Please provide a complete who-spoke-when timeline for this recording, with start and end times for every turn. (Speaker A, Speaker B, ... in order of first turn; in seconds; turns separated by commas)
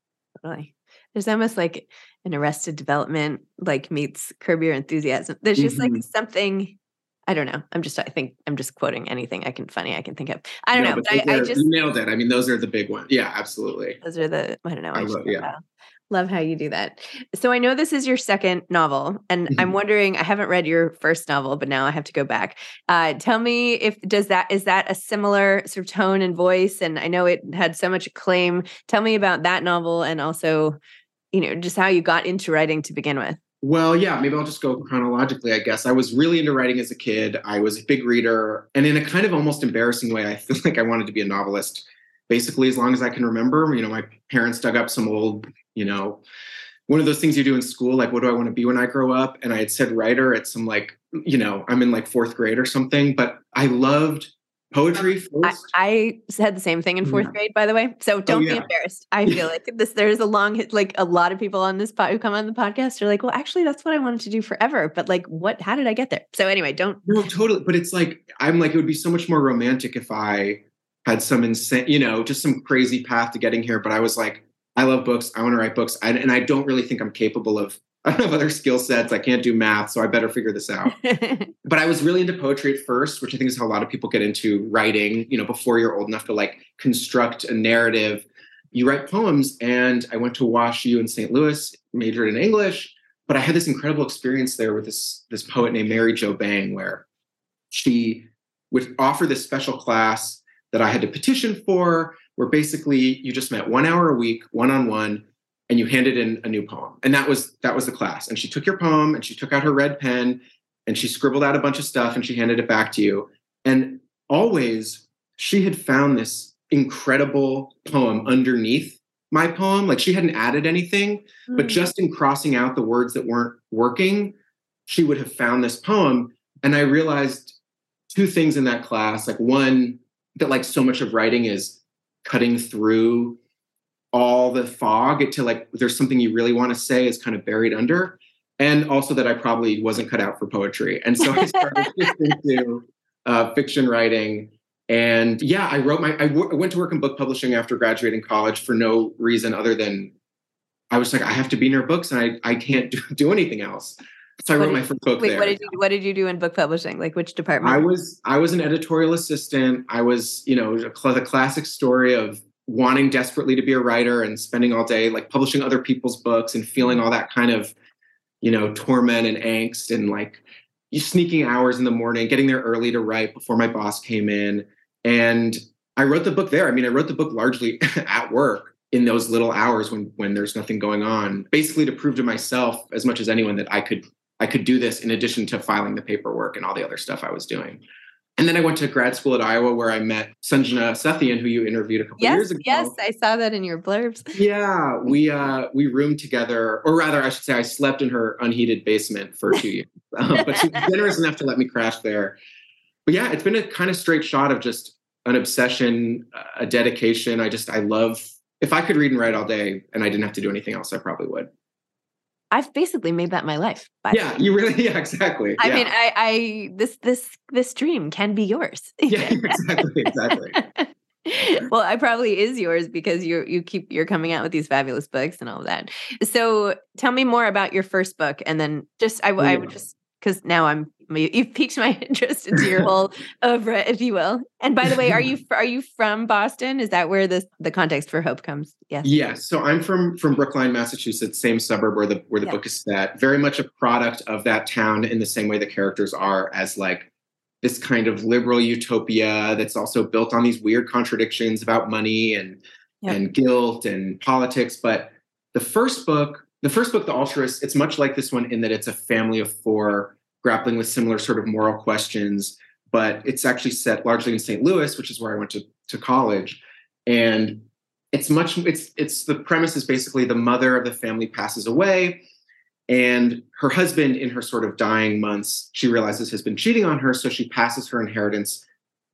Speaker A: 0.4-6.8, Speaker B: 5.6-6.0, Speaker A: 7.3-11.7, Speaker B: 10.7-14.0, Speaker A: 14.0-30.8, Speaker B: 14.9-15.5, Speaker A: 31.3-33.4, Speaker B: 33.6-46.2, Speaker B: 46.9-55.7, Speaker A: 55.4-67.0, Speaker B: 57.0-57.3, Speaker B: 58.3-58.7, Speaker B: 67.0-81.0, Speaker A: 81.0-81.5, Speaker B: 81.7-97.1, Speaker B: 97.7-124.3, Speaker A: 121.5-121.9, Speaker B: 124.9-127.6, Speaker B: 128.1-133.4, Speaker B: 134.1-150.1, Speaker A: 141.3-141.9, Speaker B: 150.9-155.7, Speaker A: 154.6-157.8, Speaker B: 157.6-167.7, Speaker B: 168.4-187.8, Speaker B: 188.4-193.0, Speaker A: 192.2-194.4, Speaker B: 194.4-202.4, Speaker A: 200.4-200.8, Speaker B: 203.1-211.5, Speaker A: 212.5-214.3, Speaker B: 214.1-215.9, Speaker A: 215.6-239.2, Speaker B: 219.1-220.6, Speaker B: 229.4-229.7, Speaker B: 239.0-247.1, Speaker B: 247.6-272.2, Speaker B: 272.9-278.6